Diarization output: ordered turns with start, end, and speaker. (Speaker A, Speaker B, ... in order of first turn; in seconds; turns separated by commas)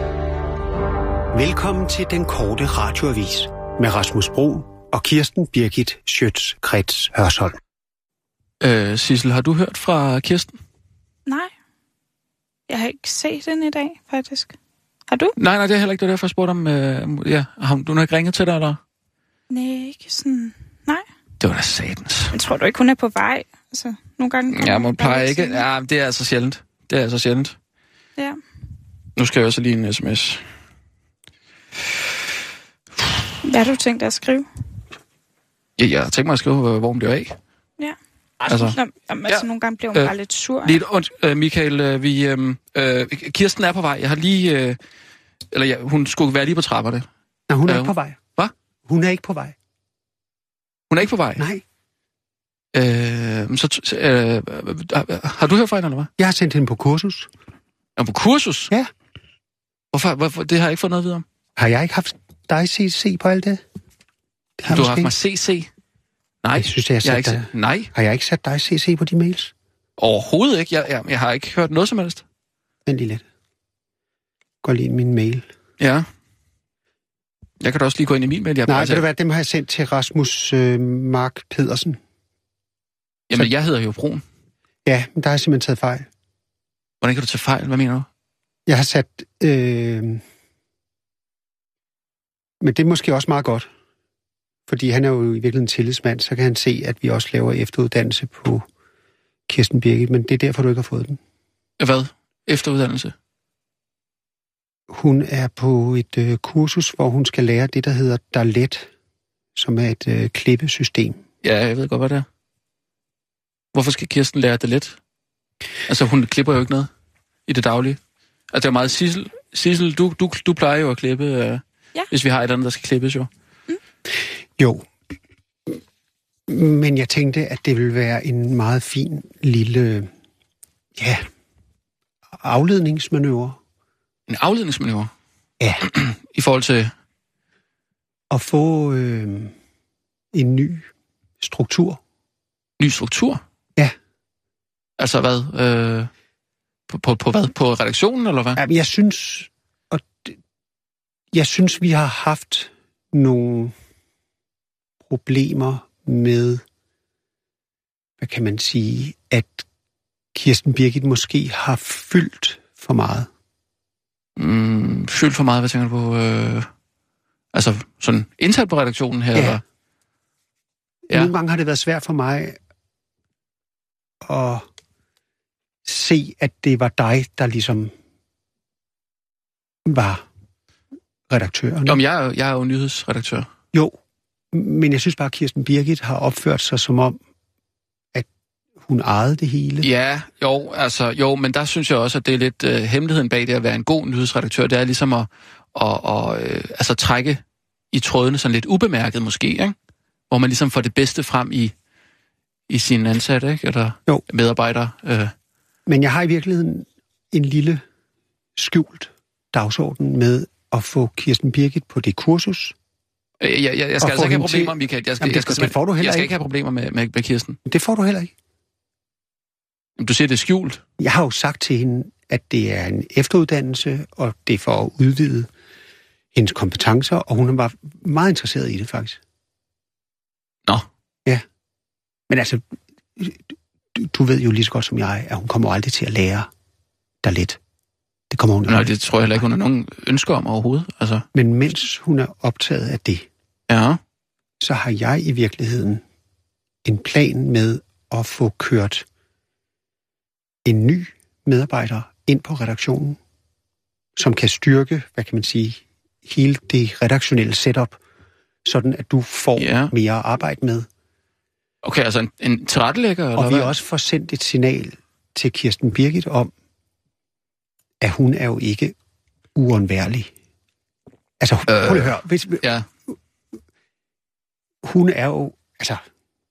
Speaker A: 1.3-7.6, Speaker B: 8.6-10.5, Speaker C: 11.2-11.5, Speaker C: 12.7-14.5, Speaker C: 15.1-15.3, Speaker B: 15.4-18.8, Speaker C: 19.5-21.0, Speaker B: 21.4-22.3, Speaker C: 22.3-25.6, Speaker B: 24.5-27.6, Speaker B: 29.2-30.4, Speaker C: 33.4-34.5, Speaker B: 35.8-37.4, Speaker B: 38.5-40.1, Speaker C: 38.5-40.8, Speaker B: 40.6-44.8, Speaker B: 45.5-47.0, Speaker A: 47.5-48.2, Speaker B: 47.7-48.5, Speaker A: 48.9-49.5, Speaker B: 50.9-51.5, Speaker A: 51.4-51.6, Speaker B: 52.7-56.1, Speaker A: 56.2-57.3, Speaker B: 58.0-58.7, Speaker B: 59.9-61.2, Speaker A: 61.6-63.6, Speaker A: 64.6-65.1, Speaker B: 64.7-65.7, Speaker B: 66.4-67.9, Speaker A: 66.5-69.5, Speaker B: 70.0-72.2, Speaker A: 72.8-73.2, Speaker A: 74.6-75.5, Speaker B: 75.8-76.0, Speaker B: 77.6-79.0, Speaker A: 78.7-82.0, Speaker B: 83.3-84.2, Speaker A: 84.8-86.1, Speaker B: 87.0-88.1, Speaker A: 88.7-90.2, Speaker A: 92.6-93.7, Speaker A: 94.7-98.6, Speaker A: 99.5-101.2, Speaker B: 101.8-103.1, Speaker A: 104.9-108.9, Speaker A: 109.5-111.2, Speaker B: 111.4-112.2, Speaker B: 113.7-115.0, Speaker B: 115.9-116.9, Speaker B: 117.5-118.0, Speaker B: 118.5-123.3, Speaker A: 124.6-124.8, Speaker A: 126.5-130.1, Speaker A: 131.0-131.3, Speaker A: 132.4-133.6, Speaker B: 134.3-135.1, Speaker B: 135.8-136.9, Speaker A: 138.3-139.5, Speaker A: 140.3-140.8, Speaker A: 141.4-142.0, Speaker B: 142.8-143.4, Speaker B: 145.0-146.1, Speaker B: 146.9-148.6, Speaker A: 148.6-150.3, Speaker A: 151.3-153.7, Speaker A: 155.1-156.6, Speaker A: 158.2-159.6, Speaker A: 160.3-163.3, Speaker B: 164.4-166.7, Speaker B: 167.5-169.6, Speaker A: 169.3-169.6, Speaker A: 171.1-172.6, Speaker A: 174.2-174.7, Speaker A: 175.8-177.9, Speaker A: 179.8-180.2, Speaker A: 181.3-182.0, Speaker B: 181.8-183.5, Speaker A: 184.5-187.2, Speaker A: 188.8-189.9, Speaker B: 189.8-199.7, Speaker B: 200.3-201.7, Speaker B: 202.7-205.3, Speaker A: 205.8-207.8, Speaker A: 208.6-212.7, Speaker B: 213.4-217.6, Speaker A: 214.0-216.3, Speaker A: 217.7-218.3, Speaker B: 220.0-220.8, Speaker A: 221.0-225.5, Speaker A: 226.3-229.2, Speaker A: 232.3-232.6, Speaker A: 233.2-233.4, Speaker A: 233.9-236.5, Speaker A: 237.2-237.6, Speaker A: 238.3-238.9, Speaker B: 238.7-241.2, Speaker A: 241.3-243.3, Speaker B: 243.7-244.0, Speaker A: 244.6-246.0, Speaker A: 246.8-249.1, Speaker A: 250.6-253.2, Speaker A: 254.2-258.0, Speaker A: 258.6-260.9, Speaker B: 259.6-259.9, Speaker B: 261.8-263.7, Speaker A: 263.4-266.5, Speaker A: 268.0-268.9, Speaker A: 269.5-270.3, Speaker A: 271.4-272.6, Speaker B: 271.7-272.9, Speaker A: 274.8-276.0